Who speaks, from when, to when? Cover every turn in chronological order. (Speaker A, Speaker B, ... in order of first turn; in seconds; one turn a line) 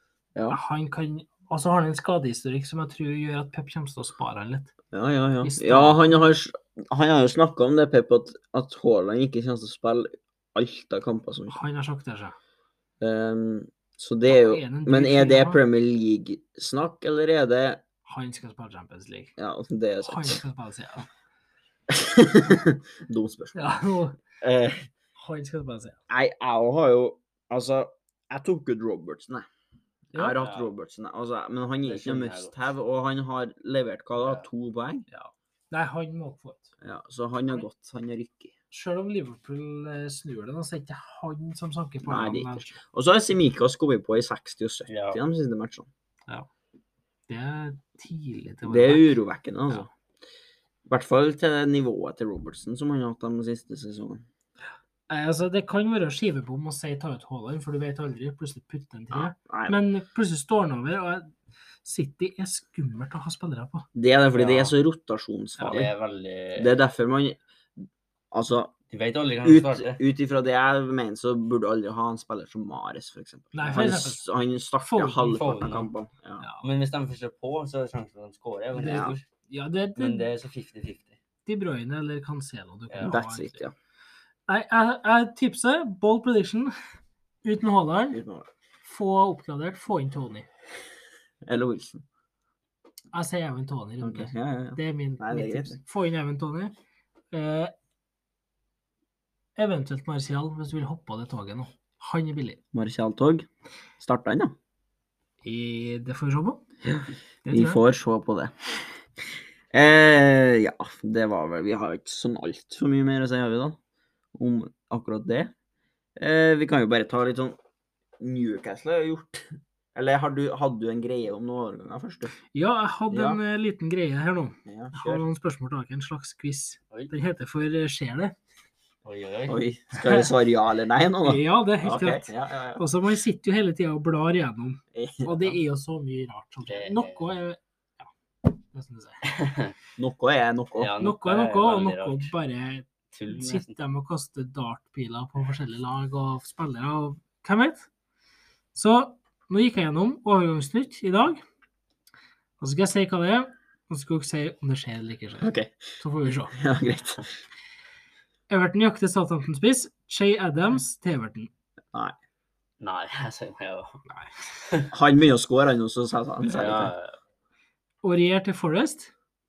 Speaker A: 0.5-4.7
Speaker B: 4.9-11.6
Speaker A: 5.4-6.2
Speaker A: 11.5-12.3
Speaker B: 13.0-17.8
Speaker A: 14.3-15.6
Speaker A: 18.1-19.3
Speaker B: 19.4-20.4
Speaker A: 20.0-21.1
Speaker B: 21.9-23.8
Speaker A: 23.6-24.2
Speaker B: 24.4-24.9
Speaker A: 25.2-26.0
Speaker B: 26.1-29.5
Speaker B: 30.1-35.1
Speaker A: 30.1-30.4
Speaker C: 30.4-30.7
Speaker C: 31.8-32.6
Speaker A: 35.1-36.7
Speaker B: 36.8-38.5
Speaker A: 38.7-42.8
Speaker B: 42.0-45.9
Speaker C: 44.9-45.2
Speaker A: 47.3-49.1
Speaker B: 48.7-49.9
Speaker B: 50.9-54.2
Speaker A: 55.1-61.3
Speaker B: 59.1-59.8
Speaker A: 61.8-63.9
Speaker B: 64.0-65.9
Speaker C: 64.3-64.7
Speaker A: 65.6-65.8
Speaker C: 65.6-66.8
Speaker B: 66.6-67.4
Speaker B: 68.3-68.7
Speaker C: 68.9-70.0
Speaker B: 69.4-76.4
Speaker A: 73.5-74.2
Speaker C: 73.7-74.0
Speaker A: 74.8-75.5
Speaker C: 75.3-75.9
Speaker A: 76.4-76.7
Speaker C: 76.6-79.2
Speaker B: 78.8-79.2
Speaker A: 78.8-80.3
Speaker C: 80.0-81.2
Speaker A: 81.5-83.6
Speaker C: 82.9-83.2
Speaker B: 83.0-83.7
Speaker A: 84.5-86.7
Speaker A: 87.4-88.2
Speaker B: 88.1-88.5
Speaker A: 88.8-90.5
Speaker B: 91.5-92.0
Speaker A: 93.1-96.7
Speaker B: 94.0-95.8
Speaker A: 97.3-97.7
Speaker A: 99.6-102.6
Speaker B: 102.7-103.5
Speaker B: 104.0-104.5
Speaker A: 105.4-106.6
Speaker B: 106.8-108.9
Speaker A: 107.5-107.8
Speaker B: 109.7-113.8
Speaker B: 114.3-115.5
Speaker B: 116.2-117.6
Speaker B: 118.2-122.3
Speaker A: 122.5-128.4
Speaker B: 123.1-123.4
Speaker B: 124.7-125.2
Speaker C: 129.0-129.6
Speaker B: 129.5-132.8
Speaker A: 130.0-130.3
Speaker A: 131.2-139.3
Speaker B: 134.9-135.6
Speaker C: 136.7-137.4
Speaker C: 139.2-139.7
Speaker B: 140.0-140.9
Speaker C: 140.8-142.3
Speaker A: 141.0-147.9
Speaker C: 143.1-143.7
Speaker A: 148.8-151.4
Speaker A: 152.6-156.6
Speaker B: 155.4-155.9
Speaker B: 156.5-157.3
Speaker A: 158.5-161.5
Speaker C: 162.8-164.0
Speaker A: 164.1-164.3
Speaker C: 164.6-164.9
Speaker B: 164.9-166.9
Speaker C: 166.5-167.2
Speaker A: 168.0-169.1